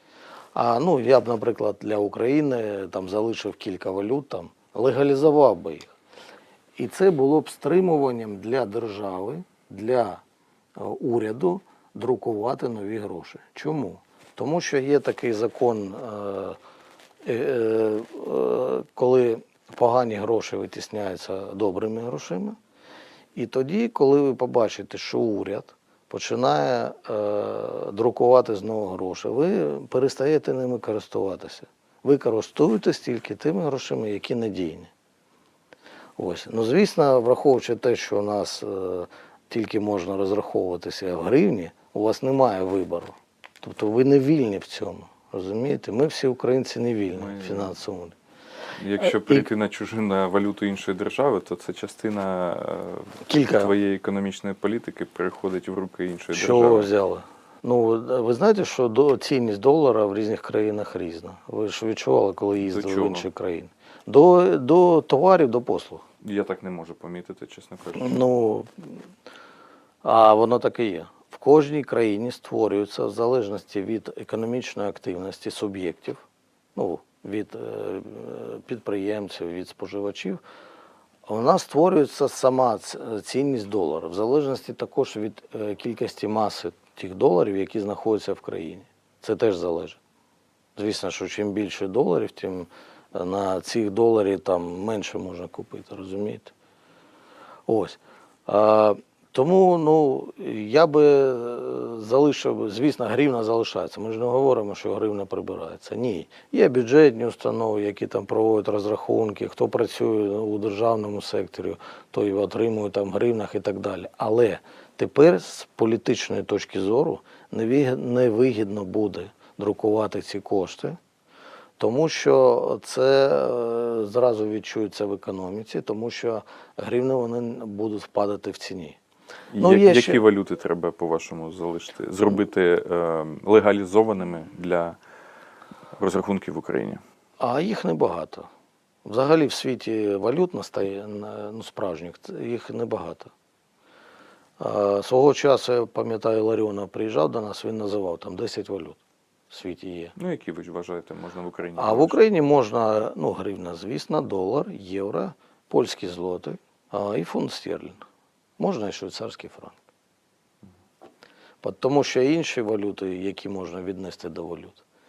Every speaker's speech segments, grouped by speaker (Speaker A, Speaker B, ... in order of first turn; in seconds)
Speaker A: 0.5-5.9, 6.8-10.2, 10.8-16.6, 17.2-22.6, 23.3-34.9, 36.2-48.1, 53.2-53.7, 56.3-66.0, 68.0-69.0, 70.0-76.2, 76.7-80.4, 81.2-90.0, 90.8-96.5, 97.7-121.0, 121.8-129.0, 129.6-130.2, 137.4-138.5, 139.0-143.3, 144.6-150.1, 151.8-158.0, 158.6-159.8, 161.6-164.8
Speaker B: 47.1-47.7, 48.8-56.9, 62.6-63.3, 66.2-68.3, 129.5-135.0, 136.0-137.0, 150.2-152.2